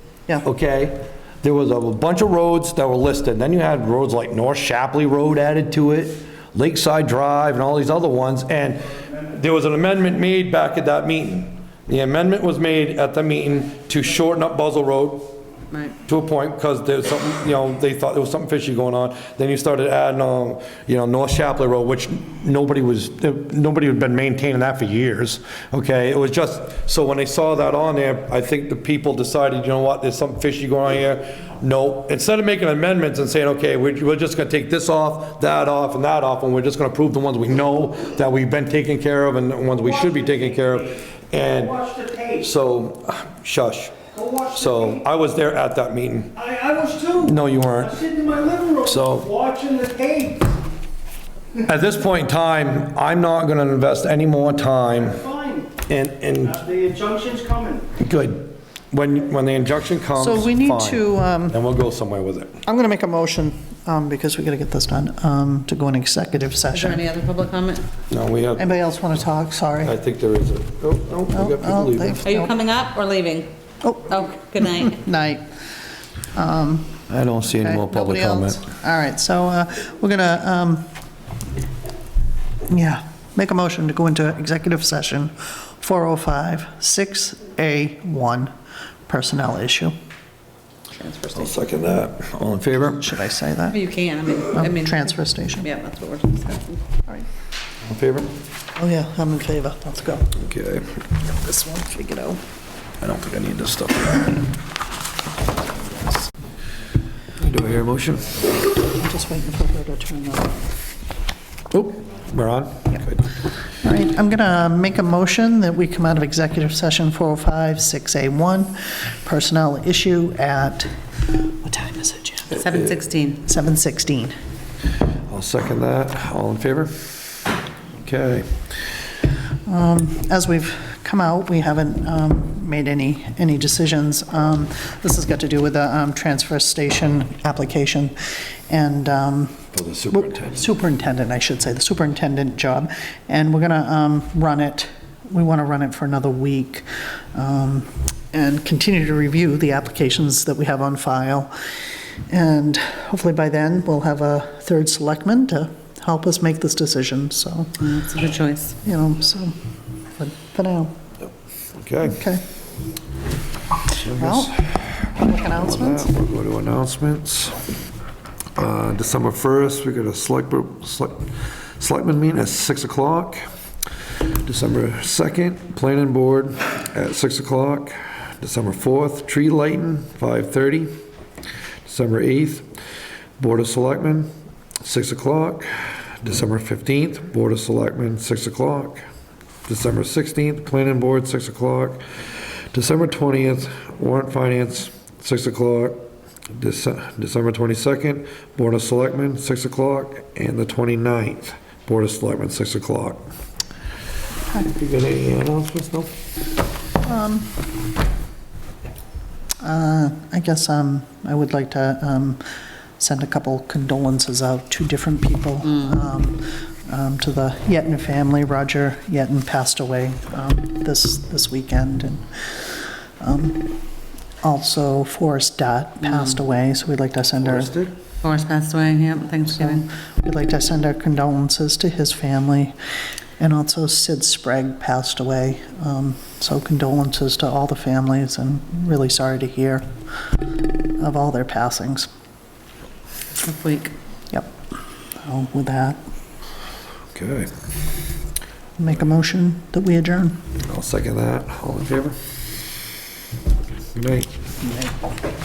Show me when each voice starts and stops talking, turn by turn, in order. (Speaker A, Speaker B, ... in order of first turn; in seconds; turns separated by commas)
Speaker A: 0.4-15.3, Speaker A: 16.1-46.5, Speaker B: 40.1-40.5, Speaker B: 41.9-42.3, Speaker B: 44.1-45.0, Speaker B: 46.5-47.3, Speaker A: 47.1-48.0, Speaker B: 48.0-50.5, Speaker A: 48.8-49.3, Speaker A: 51.6-55.3, Speaker B: 55.2-55.7, Speaker A: 55.9-56.7, Speaker B: 56.7-57.9, Speaker A: 58.0-62.6, Speaker C: 60.2-61.6, Speaker C: 62.6-67.0, Speaker D: 66.7-67.9, Speaker A: 68.1-68.7, Speaker C: 68.6-70.0, Speaker A: 69.8-72.3, Speaker C: 71.3-72.5, Speaker D: 72.2-73.5, Speaker C: 73.8-75.5, Speaker D: 74.1-75.0, Speaker C: 76.3-80.9, Speaker A: 77.1-78.6, Speaker C: 82.7-88.5, Speaker C: 89.1-89.9, Speaker D: 90.9-91.6, Speaker A: 91.3-93.1, Speaker C: 93.0-93.8, Speaker D: 93.7-96.8, Speaker C: 94.5-95.7, Speaker A: 97.8-98.3, Speaker C: 98.8-100.3, Speaker A: 100.4-100.9, Speaker C: 101.3-102.4, Speaker A: 103.0-104.4, Speaker A: 107.4-108.4, Speaker C: 108.9-110.6, Speaker A: 111.7-113.3, Speaker C: 113.8-122.7, Speaker D: 122.5-123.4, Speaker C: 123.4-124.3, Speaker A: 125.3-127.1, Speaker A: 128.0-128.5, Speaker C: 129.7-138.1, Speaker C: 138.7-151.5, Speaker A: 139.7-140.7, Speaker C: 152.3-157.8, Speaker D: 157.8-158.8, Speaker C: 158.8-159.5, Speaker C: 160.2-160.9, Speaker A: 161.8-162.2, Speaker C: 162.0-162.4, Speaker A: 163.9-167.6, Speaker C: 164.2-166.1, Speaker A: 168.6-171.2, Speaker A: 171.8-173.4, Speaker A: 174.4-180.9, Speaker A: 181.8-182.7, Speaker A: 183.4-184.3, Speaker A: 184.8-189.0, Speaker A: 189.7-192.0, Speaker A: 192.7-196.0, Speaker A: 196.5-203.2, Speaker A: 204.6-206.1, Speaker C: 207.0-207.6, Speaker C: 209.6-212.4, Speaker C: 213.0-223.8, Speaker C: 224.4-227.7, Speaker D: 226.0-226.4, Speaker A: 227.4-227.9, Speaker D: 228.2-229.8, Speaker C: 229.6-232.8, Speaker C: 233.4-239.8, Speaker C: 241.0-242.1, Speaker D: 243.4-243.9, Speaker C: 245.2-246.0, Speaker A: 247.1-247.5, Speaker C: 248.8-250.4, Speaker A: 250.7-252.2, Speaker A: 253.9-254.3, Speaker C: 254.6-255.0